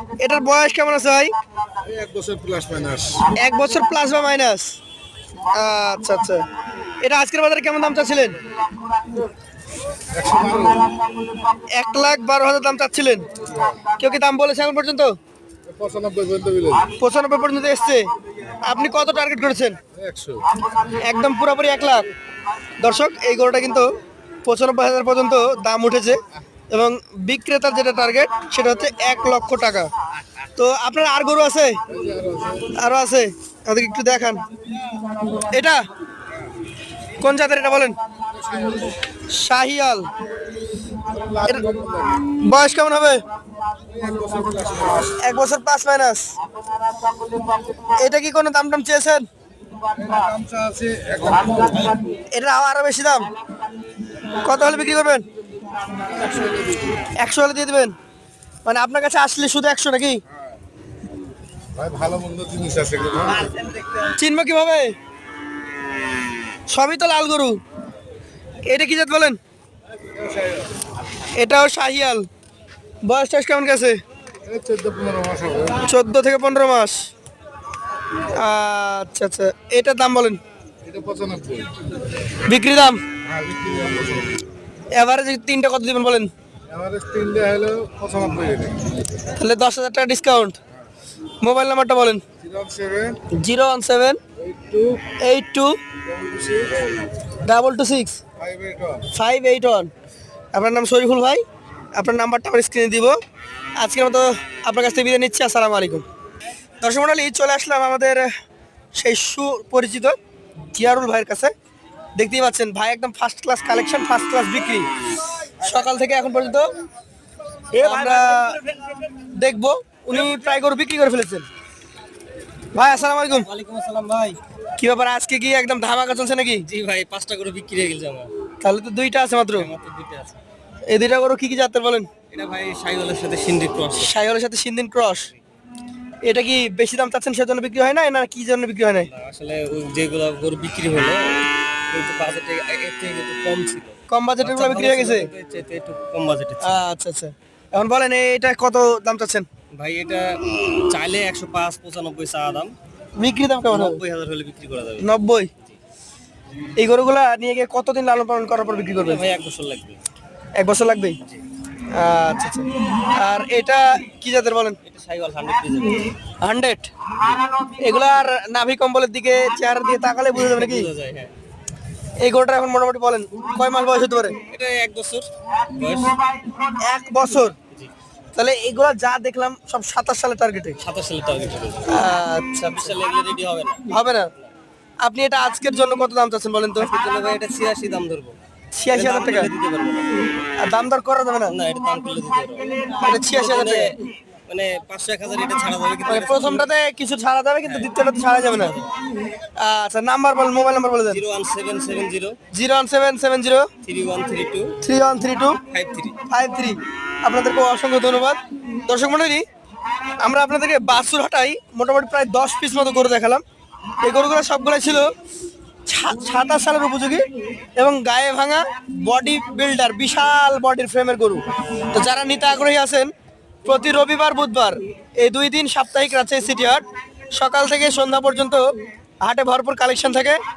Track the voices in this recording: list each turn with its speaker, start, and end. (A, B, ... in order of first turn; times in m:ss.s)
0:00.2-0:01.3 A
0:01.8-0:03.3 B
0:03.3-0:04.8 A
0:05.5-0:06.4 A
0:07.0-0:08.4 A
0:10.1-0:10.9 B
0:11.6-0:13.2 A
0:14.0-0:15.2 A
0:15.7-0:16.9 B
0:17.0-0:18.1 A
0:18.6-0:19.8 A
0:19.9-0:20.5 B
0:21.0-0:22.1 A
0:22.8-0:23.9 A
0:24.4-0:26.2 A
0:26.7-0:29.9 A
0:30.6-0:31.8 A
0:31.9-0:32.7 B
0:32.7-0:34.4 A
0:35.3-0:35.9 A
0:37.2-0:38.0 A
0:38.3-0:38.9 B
0:39.3-0:40.1 A
0:41.0-0:42.2 B
0:42.2-0:43.2 A
0:43.9-0:45.2 B
0:45.1-0:46.3 A
0:47.8-0:49.2 A
0:49.9-0:52.0 B
0:52.3-0:53.3 A
0:54.4-0:55.2 A
0:56.1-0:57.1 B
0:57.2-0:57.9 A
0:58.6-1:00.2 A
1:01.7-1:03.5 B
1:03.3-1:04.2 C
1:04.2-1:04.9 A
1:06.7-1:07.6 A
1:08.7-1:09.4 A
1:10.1-1:10.7 B
1:11.4-1:12.3 A
1:13.0-1:14.0 A
1:14.4-1:15.8 B
1:15.8-1:17.1 A
1:18.4-1:20.4 A
1:20.8-1:21.7 B
1:22.5-1:23.0 A
1:23.2-1:24.4 B
1:24.9-1:26.3 A
1:26.7-1:28.9 B
1:29.4-1:30.6 A
1:31.4-1:32.2 A
1:32.4-1:33.2 B
1:33.3-1:34.2 A
1:34.4-1:35.1 B
1:35.2-1:35.8 A
1:36.0-1:36.9 B
1:37.4-1:38.2 A
1:38.4-1:39.1 B
1:39.1-1:39.9 A
1:40.5-1:41.4 A
1:42.0-1:43.2 A
1:43.8-1:46.0 A
1:46.8-1:48.3 A
1:48.9-1:50.2 A
1:50.7-1:51.5 A
1:52.2-1:54.9 A
1:55.6-1:56.7 A
1:57.7-1:59.0 C
1:57.8-1:58.6 A
1:59.4-2:01.5 A
2:02.7-2:03.5 A
2:03.3-2:04.4 C
2:04.8-2:06.7 A
2:06.6-2:08.3 C
2:08.6-2:09.7 A
2:09.5-2:10.4 C
2:10.9-2:12.1 A
2:12.3-2:14.1 C
2:14.0-2:15.3 A
2:16.2-2:19.1 A
2:19.0-2:26.8 C
2:24.1-2:25.3 A
2:26.6-2:29.5 A
2:29.7-2:32.8 C
2:33.2-2:34.0 A
2:33.7-2:35.1 C
2:35.0-2:35.5 A
2:36.8-2:39.2 A
2:39.0-2:40.0 C
2:40.6-2:41.2 A
2:41.9-2:44.8 A
2:44.8-2:46.2 C
2:46.4-2:46.9 A
2:47.8-2:50.9 A
2:50.4-2:51.3 C
2:52.2-2:54.4 A
2:54.5-2:56.2 C
2:56.7-2:57.6 A
2:58.4-3:00.8 A
3:00.8-3:04.5 C
3:01.9-3:02.9 A
3:03.9-3:04.3 A
3:05.0-3:06.9 A
3:06.8-3:08.4 C
3:08.8-3:09.5 A
3:08.9-3:10.2 C
3:10.6-3:11.5 A
3:11.5-3:16.7 C
3:13.0-3:14.0 A
3:16.1-3:18.8 A
3:17.6-3:17.9 C
3:18.5-3:18.9 C
3:19.6-3:21.2 A
3:21.1-3:22.4 C
3:22.5-3:23.7 A
3:23.8-3:24.8 C
3:24.8-3:25.6 A
3:25.7-3:26.2 C
3:26.3-3:29.4 A
3:30.2-3:33.4 A
3:34.0-3:35.1 A
3:35.9-3:37.2 A
3:37.8-3:43.1 A
3:43.6-3:46.8 A
3:47.4-3:48.7 A
3:49.2-3:50.4 A